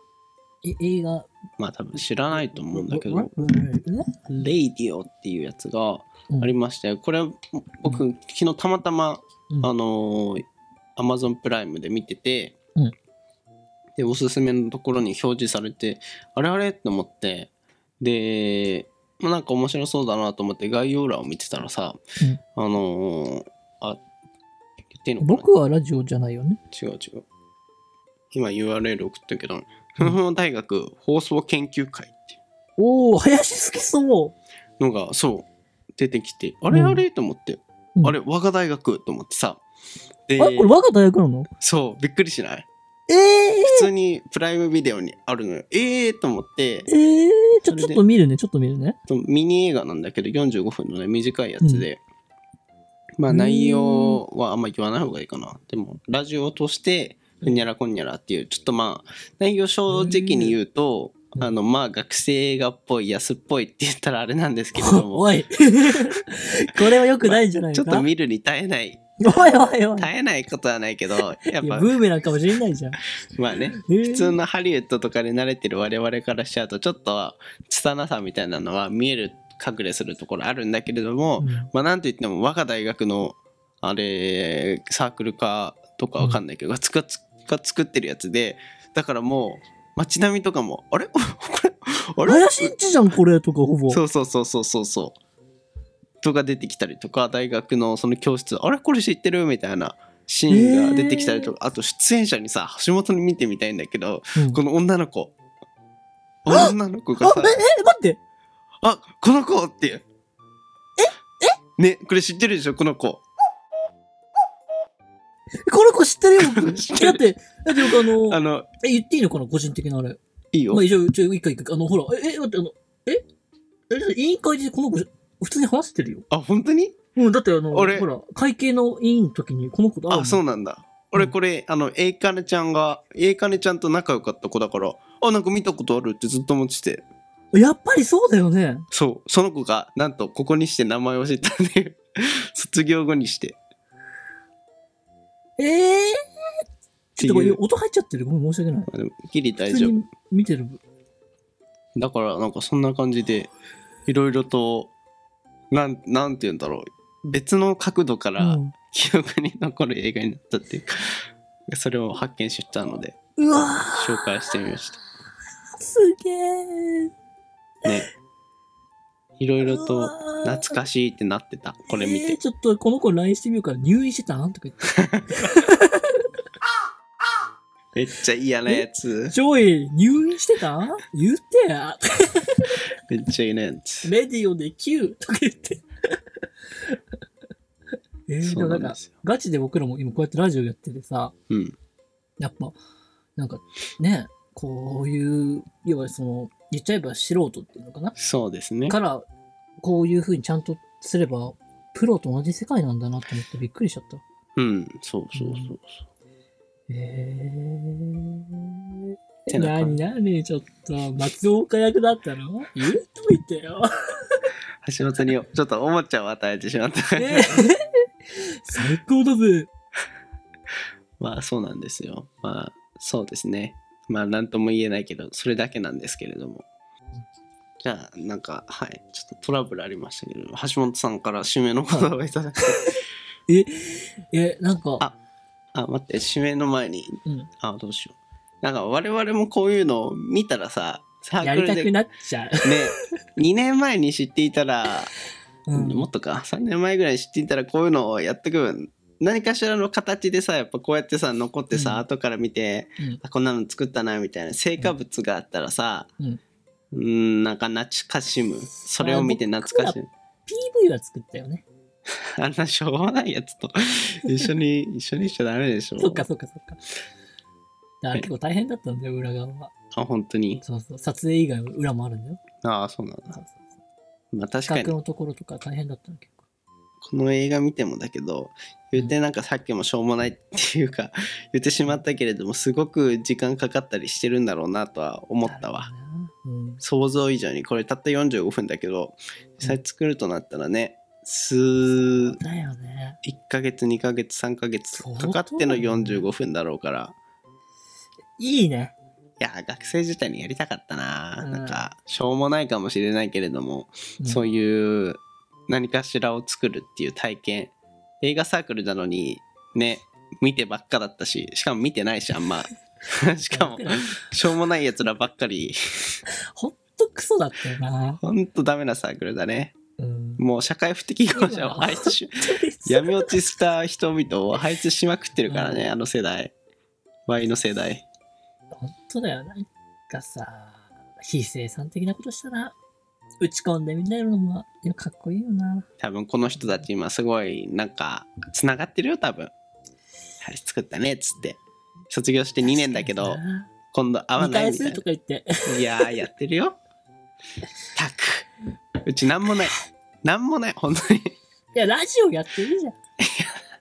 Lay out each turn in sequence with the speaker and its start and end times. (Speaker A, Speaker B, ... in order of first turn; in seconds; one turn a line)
Speaker A: 0.6-1.3
Speaker B: 1.6-3.3
Speaker A: 2.3-4.5
Speaker B: 4.3-10.4
Speaker B: 11.0-12.6
Speaker B: 14.0-22.0
Speaker B: 22.6-24.0
Speaker B: 24.9-25.5
Speaker A: 25.2-26.6
Speaker B: 26.7-27.2
Speaker B: 28.3-32.4
Speaker A: 32.8-34.3
Speaker B: 34.8-39.6
Speaker A: 36.7-37.0
Speaker B: 40.3-40.7
Speaker A: 40.4-41.5
Speaker B: 41.6-42.7
Speaker A: 43.1-43.9
Speaker B: 43.6-46.9
Speaker A: 46.9-49.0
Speaker B: 47.7-48.0
Speaker B: 49.1-52.0
Speaker A: 51.6-51.9
Speaker B: 53.2-65.3
Speaker A: 53.3-54.2
Speaker A: 57.4-57.6
Speaker A: 59.9-60.5
Speaker A: 64.8-68.1
Speaker B: 67.2-69.1
Speaker A: 69.2-70.1
Speaker B: 70.0-72.0
Speaker A: 71.5-73.0
Speaker B: 73.3-92.7
Speaker A: 73.8-74.4
Speaker A: 81.4-81.7
Speaker A: 92.2-94.0
Speaker B: 93.9-95.2
Speaker B: 96.2-105.3
Speaker A: 100.5-101.5
Speaker B: 106.4-107.6
Speaker A: 106.5-108.2
Speaker B: 108.8-110.0
Speaker A: 111.0-111.5
Speaker B: 111.8-113.2
Speaker A: 115.6-120.2
Speaker B: 116.4-118.7
Speaker B: 120.5-120.8
Speaker A: 120.7-123.2
Speaker A: 123.9-126.2
Speaker B: 126.3-127.0
Speaker A: 127.1-130.4
Speaker B: 127.7-128.1
Speaker B: 130.1-137.0
Speaker A: 137.5-138.8
Speaker B: 138.9-143.6
Speaker A: 145.6-146.2
Speaker A: 147.2-148.9
Speaker B: 147.2-147.6
Speaker B: 148.9-149.9
Speaker A: 149.7-150.8
Speaker B: 151.9-153.5
Speaker B: 154.1-154.9
Speaker B: 155.7-163.2
Speaker A: 158.4-158.7
Speaker A: 163.4-164.3
Speaker B: 163.9-165.0
Speaker A: 165.8-167.1
Speaker B: 169.4-172.4
Speaker A: 169.6-170.8
Speaker A: 171.9-176.2
Speaker B: 177.9-179.3
Speaker A: 178.7-182.8
Speaker B: 183.1-184.1
Speaker A: 184.0-185.8
Speaker A: 188.3-191.3
Speaker B: 188.4-189.1
Speaker B: 191.5-191.8
Speaker A: 192.4-192.8
Speaker A: 193.4-198.1
Speaker B: 198.2-199.0
Speaker A: 198.9-199.2
Speaker A: 199.8-204.2
Speaker B: 204.6-206.0
Speaker A: 205.3-205.7
Speaker A: 206.9-214.4
Speaker B: 209.5-210.0
Speaker B: 214.8-217.7
Speaker A: 217.2-217.8
Speaker A: 218.7-219.7
Speaker B: 221.2-226.7
Speaker B: 227.8-232.9
Speaker A: 233.5-235.1
Speaker B: 235.7-241.9
Speaker A: 241.4-242.7
Speaker B: 242.6-245.1
Speaker A: 245.7-246.1
Speaker B: 245.7-256.1
Speaker A: 251.7-252.0
Speaker B: 256.9-260.1
Speaker A: 259.0-261.6
Speaker B: 262.4-266.2
Speaker A: 266.0-266.8
Speaker A: 268.0-269.7
Speaker B: 269.9-270.6
Speaker A: 270.6-272.4
Speaker B: 272.6-273.4
Speaker A: 273.3-273.6
Speaker B: 274.3-274.9
Speaker A: 274.7-276.4
Speaker B: 277.0-285.9
Speaker A: 285.4-286.8
Speaker B: 286.8-292.4
Speaker A: 292.4-293.2
Speaker B: 293.2-297.1
Speaker A: 295.0-296.2
Speaker A: 298.4-298.9
Speaker B: 299.4-315.8
Speaker A: 301.4-301.8
Speaker A: 313.5-314.3
Speaker A: 316.6-318.2
Speaker B: 318.2-319.8
Speaker A: 320.0-320.4
Speaker B: 320.4-326.5
Speaker A: 321.3-323.3
Speaker A: 325.4-325.9
Speaker B: 327.3-328.1
Speaker A: 328.7-332.7
Speaker A: 333.4-335.9
Speaker B: 336.0-339.5
Speaker A: 336.6-336.8
Speaker B: 340.4-343.4
Speaker A: 342.6-343.7
Speaker B: 343.9-345.0
Speaker A: 344.4-346.2
Speaker B: 345.7-346.8
Speaker B: 347.9-348.5
Speaker B: 349.0-351.3
Speaker A: 351.7-352.9
Speaker B: 353.2-353.6